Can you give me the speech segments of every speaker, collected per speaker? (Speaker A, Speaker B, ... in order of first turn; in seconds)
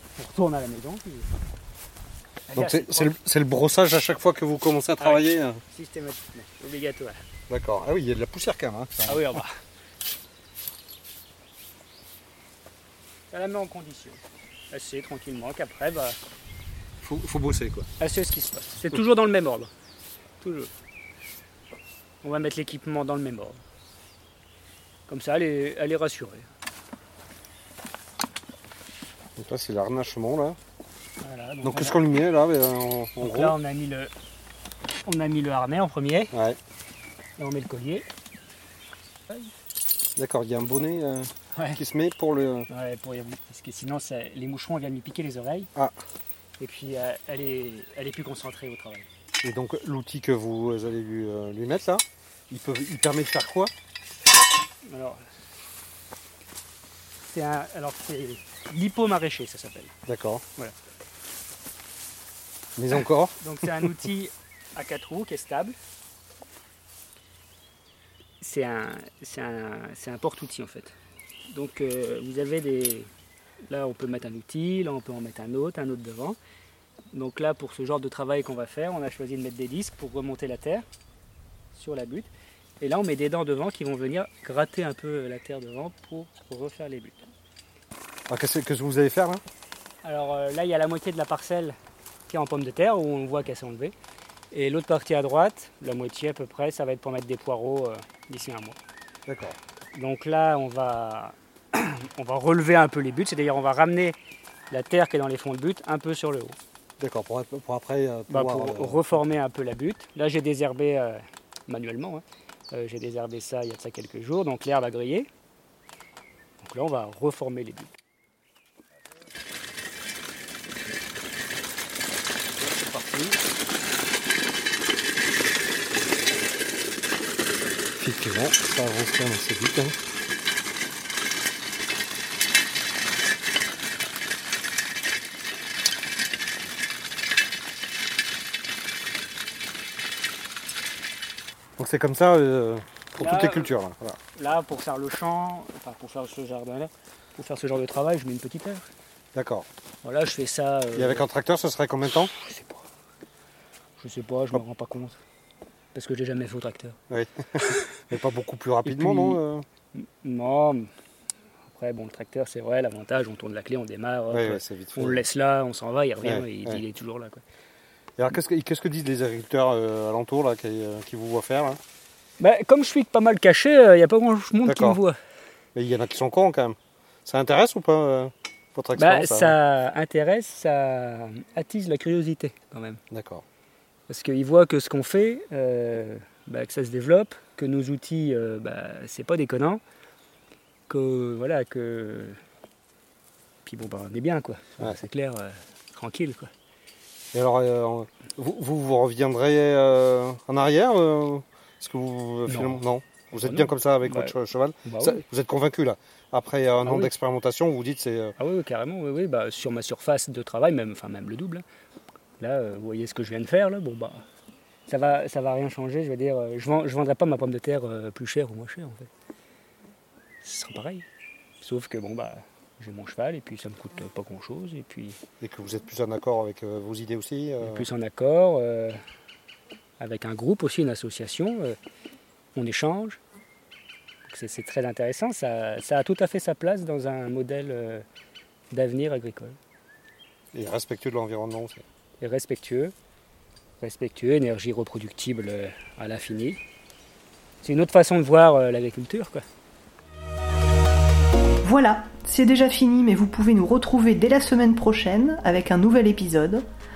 Speaker A: 0.2-1.3, 2.5-3.2, 5.0-7.2, 9.1-9.6, 13.3-16.2, 18.0-19.7, 20.4-20.7, 22.2-23.6, 25.1-26.5, 31.2-32.0, 33.2-34.1, 35.0-36.3, 37.4-38.1, 41.5-41.8, 42.7-45.7, 46.6-49.1, 54.9-55.2, 57.3-59.9, 63.4-65.8, 68.4-70.9, 71.5-73.1, 73.7-76.4, 77.1-80.8, 81.7-87.2, 90.0-91.8, 92.3-93.9, 94.5-98.8, 99.9-104.2, 104.7-106.6, 108.3-115.3, 116.6-117.9, 143.2-143.7, 144.3-148.8, 150.0-151.3, 152.2-152.9, 154.0-155.2, 155.9-157.0, 158.8-159.4, 159.9-160.9, 161.7-167.4, 172.4-175.2, 179.0-183.0, 184.1-189.8, 190.9-192.4, 193.6-196.5, 202.5-202.8, 203.4-204.3, 204.8-205.2, 206.8-207.1, 208.4-211.6, 212.4-214.2, 214.9-219.1, 220.4-221.1, 221.6-225.2, 227.6-229.0, 230.0-231.8, 232.6-233.2, 234.2-238.0, 238.7-239.6, 242.2-242.9, 243.8-246.6, 247.6-249.4
Speaker B: 2.5-5.6, 7.5-9.4, 17.0-17.9, 29.4-30.6, 31.6-33.6, 40.2-42.7, 49.4-53.7, 60.1-60.4, 62.8-63.9, 88.3-89.4, 99.3-99.6, 107.0-109.2, 122.6-123.4, 128.0-129.9, 141.8-144.2, 149.3-149.7, 150.9-152.3, 157.1-159.7, 164.3-165.2, 166.2-166.8, 168.2-171.8, 174.7-175.0, 175.8-179.6, 183.1-183.4, 197.3-208.3, 225.4-227.9, 240.5-241.8
Speaker C: 251.6-256.6